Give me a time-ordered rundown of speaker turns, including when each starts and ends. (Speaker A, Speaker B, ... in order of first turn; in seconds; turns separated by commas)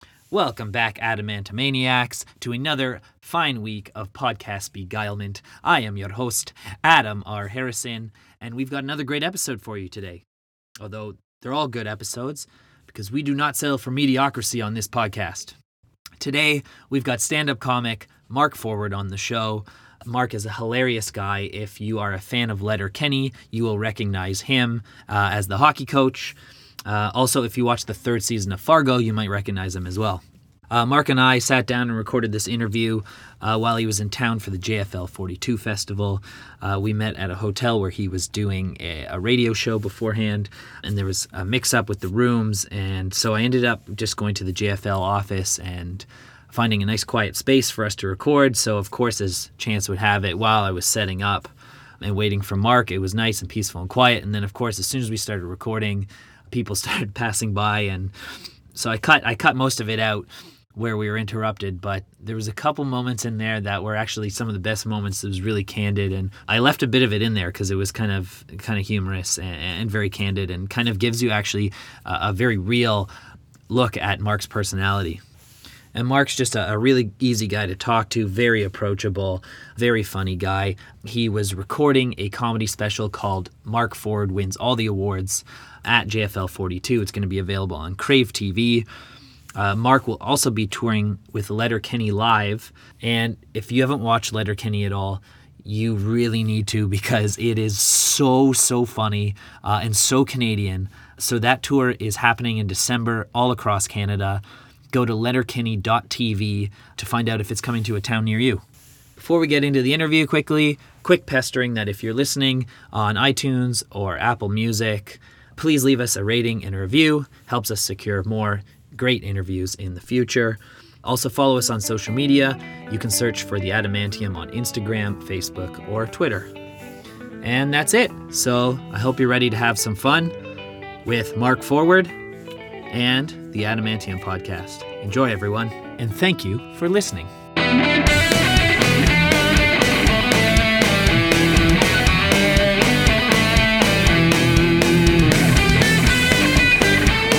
Speaker A: 0.3-10.2, Speaker A: 10.8-15.6, Speaker A: 16.2-58.1, Speaker A: 58.7-73.1, Speaker A: 73.7-75.2, Speaker A: 75.9-88.8, Speaker A: 89.5-108.6, Speaker A: 109.2-126.5, Speaker A: 127.4-130.3, Speaker A: 131.0-132.1, Speaker A: 132.9-137.3